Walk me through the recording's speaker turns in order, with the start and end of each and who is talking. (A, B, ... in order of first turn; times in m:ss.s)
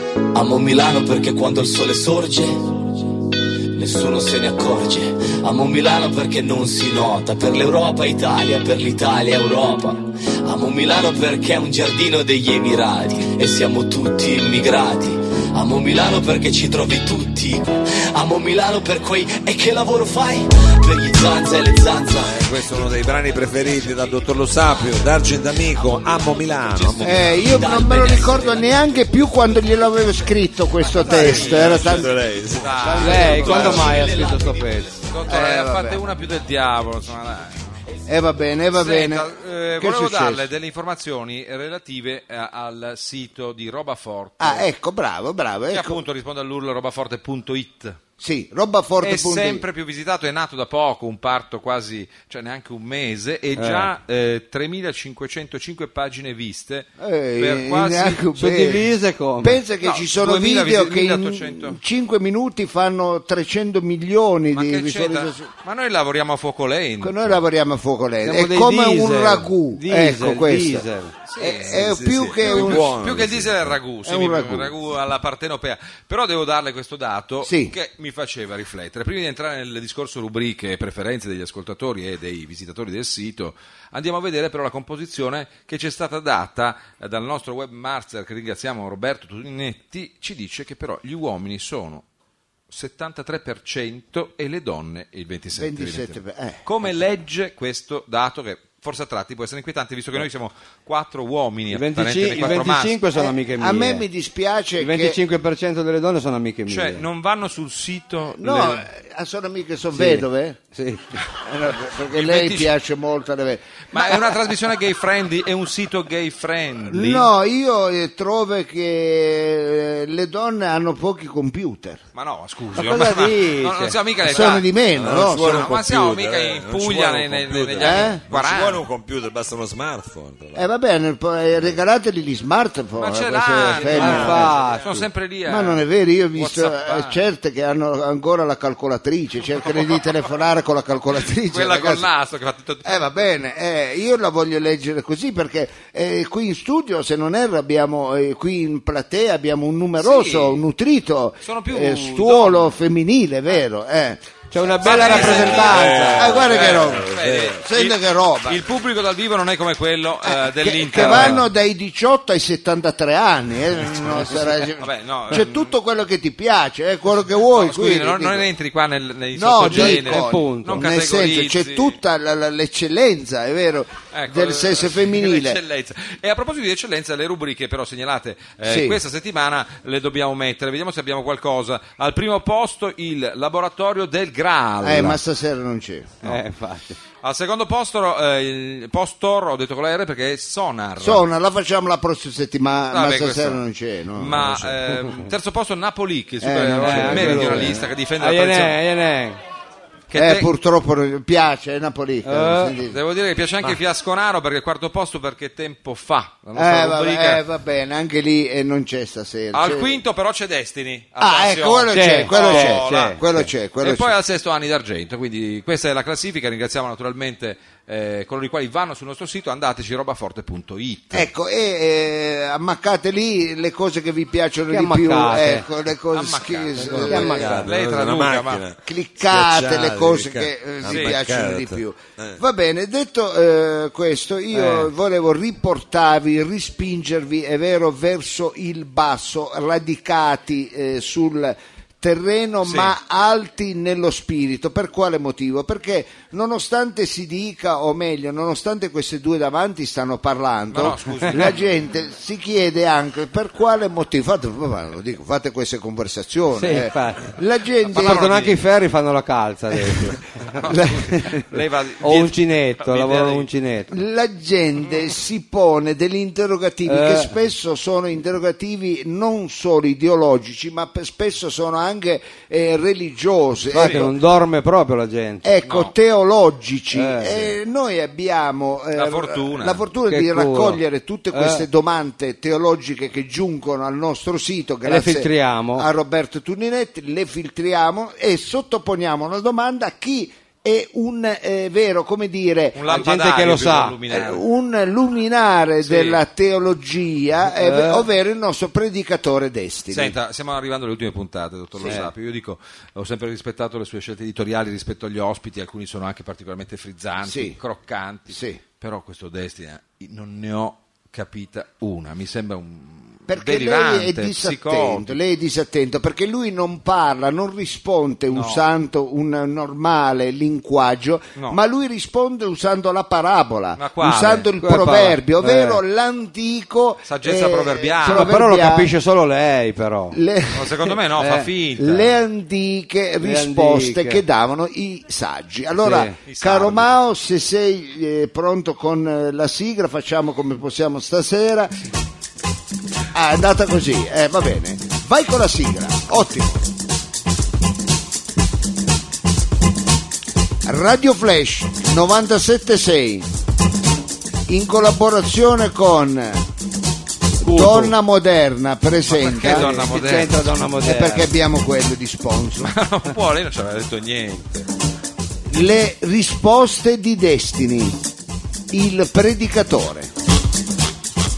0:00.3-0:02.8 A
0:03.7-0:22.3 A
0:22.2-0:27.4 B
0:27.0-0:29.0 A
0:27.0-0:32.1 C
0:31.0-0:34.0 D
0:31.0-0:33.2 B
0:32.9-0:35.0 E
0:33.0-0:33.9 C
0:33.3-0:34.7 A
0:35.1-0:37.8 D
0:35.3-0:36.0 C
0:38.0-0:39.3 C
0:38.7-0:44.7 D
0:39.8-0:40.5 C
0:44.4-0:46.0 C
0:45.7-0:48.0 D
0:48.2-0:49.6 C
0:49.0-0:58.2 D
0:53.6-0:53.9 E
0:57.0-0:58.9 C
0:58.3-0:59.6 E
0:59.4-1:05.5 C
0:59.8-1:01.8 D
1:04.5-1:07.4 D
1:07.0-1:10.9 C
1:08.2-1:11.1 E
1:11.2-1:11.8 D
1:11.4-1:12.9 C
1:11.7-1:13.8 B
1:12.4-1:32.0 D
1:14.0-1:14.7 C
1:17.4-1:17.7 C
1:32.7-1:43.0 D
1:35.5-1:36.6 C
1:41.7-1:44.0 E
1:43.1-1:45.2 C
1:44.8-1:47.0 E
1:46.7-1:48.8 D
1:48.4-1:50.6 C
1:49.9-1:51.1 E
1:51.4-1:54.2 C
1:52.1-1:52.7 D
1:53.9-1:57.3 D
1:56.9-2:02.0 C
2:02.1-2:04.7 D
2:02.7-2:04.0 E
2:04.3-2:05.8 C
2:04.9-2:10.7 B
2:05.2-2:08.8 D
2:07.8-2:08.2 C
2:10.5-2:14.5 C
2:13.0-2:15.8 D
2:13.8-2:15.0 E
2:14.3-2:14.9 B
2:15.5-2:22.0 C
2:16.3-2:17.2 D
2:21.4-2:23.0 D
2:22.8-2:34.2 C
2:30.0-2:30.6 D
2:31.4-2:32.7 D
2:34.5-2:36.5 E
2:34.8-2:41.4 D
2:35.6-2:37.6 B
2:36.2-2:38.6 C
2:40.2-2:48.5 C
2:41.0-2:41.4 E
2:44.8-2:45.7 D
2:47.5-2:52.0 D
2:49.3-2:55.6 C
2:49.6-2:50.9 E
2:54.1-3:05.2 D
2:58.6-2:59.0 C
3:04.8-3:06.1 C
3:06.2-3:07.0 E
3:07.2-3:11.2 D
3:11.0-3:14.7 C
3:12.9-3:13.6 D
3:14.2-3:18.8 D
3:16.4-3:17.8 C
3:16.8-3:19.4 E
3:20.1-3:20.5 D
3:20.1-3:23.0 C
3:22.2-3:22.7 E
3:22.9-3:27.4 D
3:26.5-3:30.0 C
3:29.5-3:41.3 D
3:31.2-3:34.1 C
3:31.9-3:33.2 E
3:41.1-3:47.6 C
3:44.7-3:45.6 E
3:46.1-3:48.6 D
3:46.9-3:52.4 B
3:47.0-3:47.7 E
3:48.8-4:18.3 C
3:50.8-3:51.1 D
3:54.5-3:54.9 E
4:02.6-4:03.0 D
4:10.7-4:11.6 D
4:16.5-4:17.4 E
4:17.9-4:20.2 E
4:17.9-4:18.6 D
4:20.5-4:23.5 D
4:20.7-4:21.0 C
4:21.1-4:24.0 E
4:23.9-4:34.1 C
4:26.8-4:27.3 E
4:33.7-4:35.4 E
4:33.7-4:34.1 D
4:35.4-4:52.8 C
4:35.6-4:35.9 D
4:36.9-4:37.5 E
4:38.9-4:39.8 D
4:40.1-4:41.7 E
4:44.8-4:45.9 E
4:52.7-4:54.4 D
4:52.9-4:54.0 E
4:54.1-5:00.2 C
4:55.8-4:56.2 D
4:57.4-4:58.0 E
4:59.9-5:15.2 D
5:01.8-5:02.1 E
5:07.2-5:07.6 C
5:08.3-5:08.6 C
5:13.3-5:28.9 C
5:18.3-5:18.6 D
5:23.8-5:24.5 D
5:24.6-5:25.8 E
5:27.0-5:28.3 D
5:28.0-5:30.2 E
5:30.1-5:31.0 C
5:30.5-5:32.2 D
5:31.2-5:31.5 E
5:31.8-5:41.8 C
5:33.2-5:34.2 E
5:35.8-5:36.2 E
5:36.2-5:36.9 D
5:43.1-5:46.6 C
5:50.6-5:53.3 C
5:54.5-5:56.4 C
5:57.4-5:58.0 E
5:57.4-5:59.8 C
5:59.1-6:00.5 D
5:59.4-6:01.3 E
6:00.8-6:02.7 C
6:02.6-6:04.7 D
6:05.5-6:08.0 C
6:08.7-6:10.1 C